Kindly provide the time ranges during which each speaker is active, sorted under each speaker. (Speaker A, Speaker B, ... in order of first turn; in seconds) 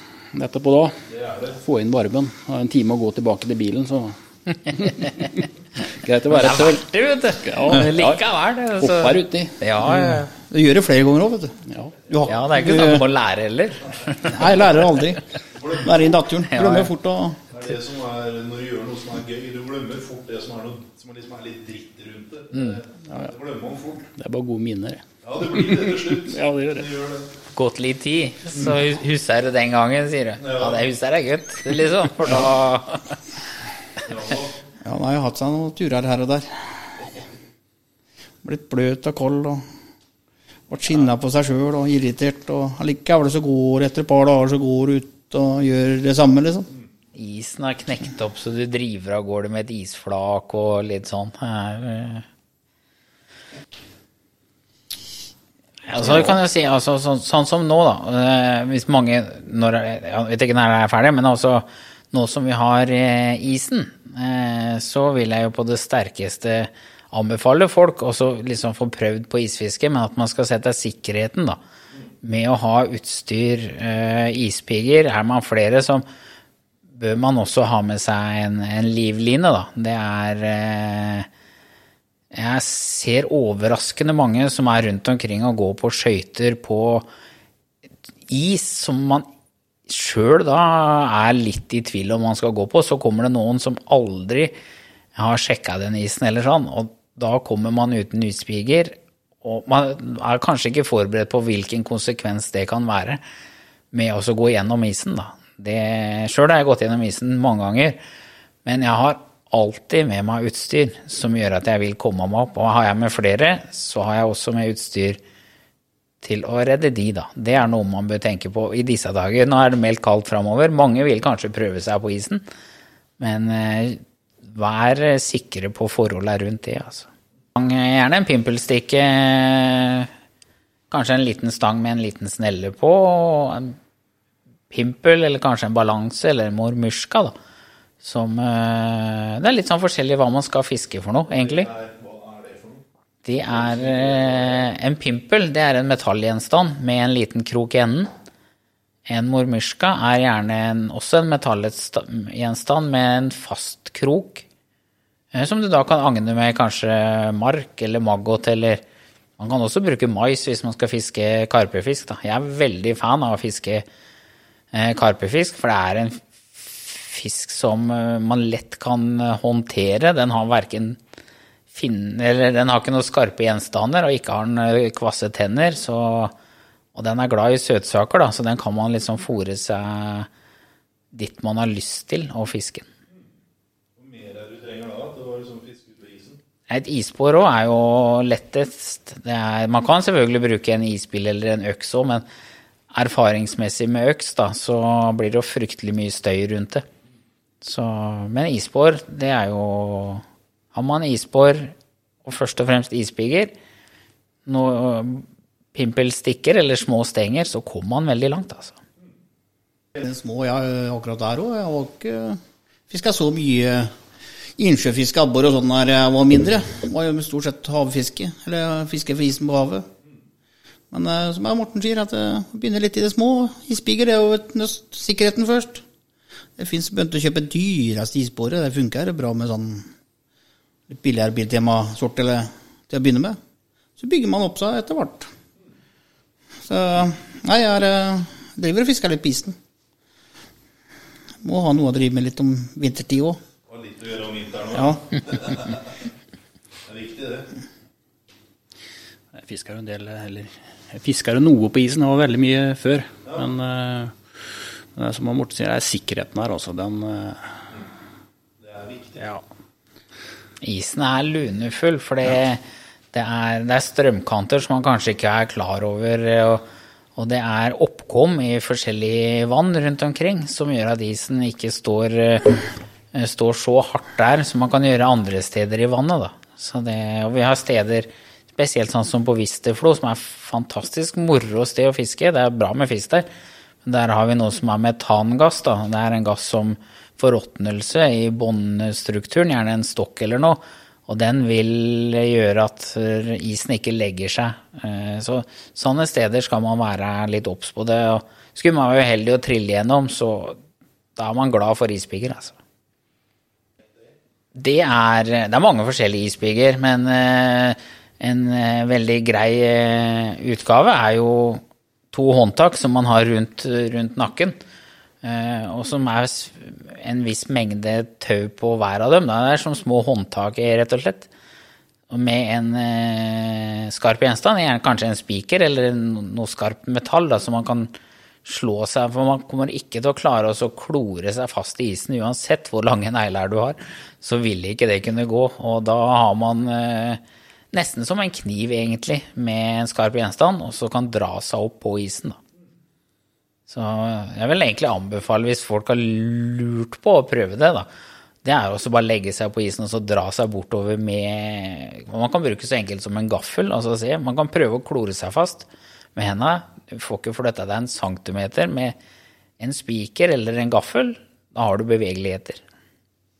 Speaker A: 0.3-1.0, 1.5-5.2, 5.9-6.8, 7.4-8.2, 8.8-9.6, 24.2-26.9, 249.3-257.7, 259.2-259.4
Speaker B: 1.1-1.5, 15.5-16.2, 17.5-24.0, 25.2-27.2, 30.4-30.8, 34.0-34.5, 141.3-142.8, 143.5-144.6, 184.0-186.4, 243.7-245.8, 246.8-247.5, 258.6-259.2
Speaker C: 6.3-10.3, 12.2-14.7, 16.5-16.9, 22.5-22.8, 27.5-33.1, 47.1-52.2, 55.9-71.6, 72.2-76.0, 76.9-81.3, 82.3-87.1, 88.3-89.2, 89.9-94.5, 95.1-103.2, 103.9-108.0, 108.6-115.2, 116.2-122.4, 123.2-130.1, 130.9-133.8, 134.7-137.3, 138.0-141.7, 143.2-148.1, 149.1-154.4, 155.3-158.8, 159.4-163.8, 164.7-171.0, 171.7-176.3, 176.9-180.3, 181.1-182.8, 186.7-192.2, 192.9-196.8, 197.6-201.7, 202.2-203.5, 204.4-208.8, 260.6-262.6, 263.1-266.6, 267.1-283.3, 283.8-300.6, 301.1-302.6, 304.5-311.6, 312.1-314.6, 315.2-321.3, 322.1-327.9, 328.4-337.2, 337.7-342.4, 343.7-347.9, 348.4-358.9, 359.6-362.6
Speaker D: 9.9-13.1, 14.2-17.4, 34.8-37.1, 38.4-39.6, 40.7-46.7, 209.9-213.9, 214.6-219.9, 220.9-225.8, 226.6-229.9, 230.9-233.4, 234.0-235.3, 236.6-239.6, 241.4-243.4, 244.7-245.0